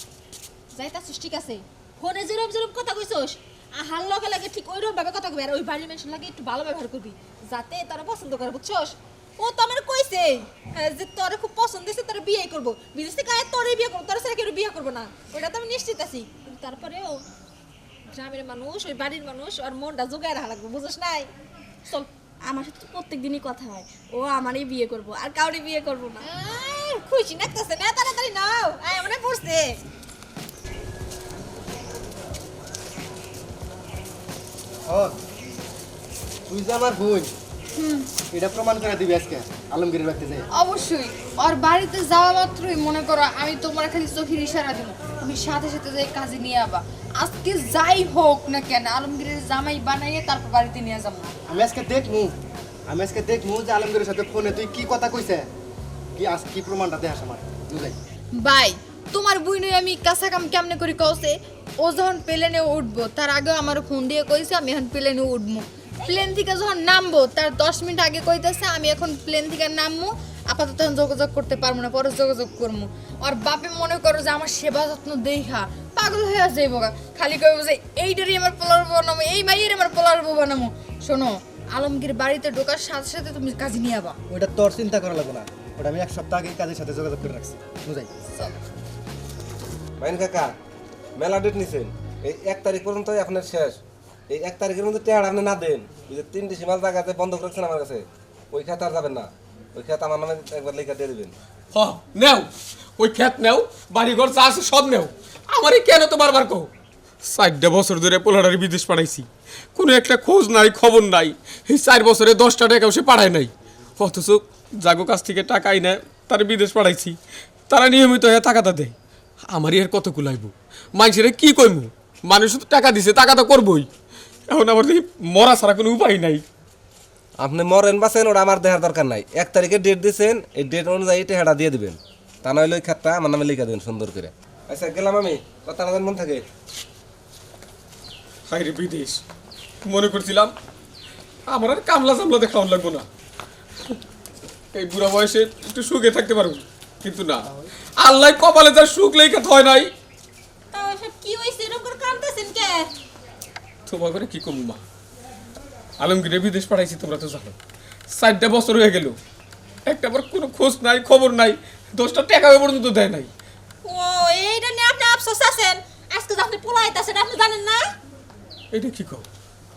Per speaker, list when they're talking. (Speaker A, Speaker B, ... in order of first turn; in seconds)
Speaker A: 0.7-17.2, 18.1-21.3, 26.2-29.8, 150.7-152.9, 163.8-167.8
Speaker B: 22.5-26.2
Speaker C: 34.9-35.1, 36.5-37.3, 38.3-40.5, 51.5-52.4, 52.9-55.5, 56.2-58.0, 84.3-88.1
Speaker D: 37.8-38.1, 40.5-51.4, 58.4-84.2
Speaker E: 90.0-90.5, 91.2-101.3, 127.4-136.4
Speaker F: 101.7-106.7, 107.3-117.2, 117.7-119.0, 119.5-123.9, 124.5-126.4, 138.5-139.2, 139.9-140.5, 141.5-143.1, 144.7-149.9, 153.9-154.8, 156.0-157.6, 158.1-159.2, 159.9-163.3, 168.7-169.2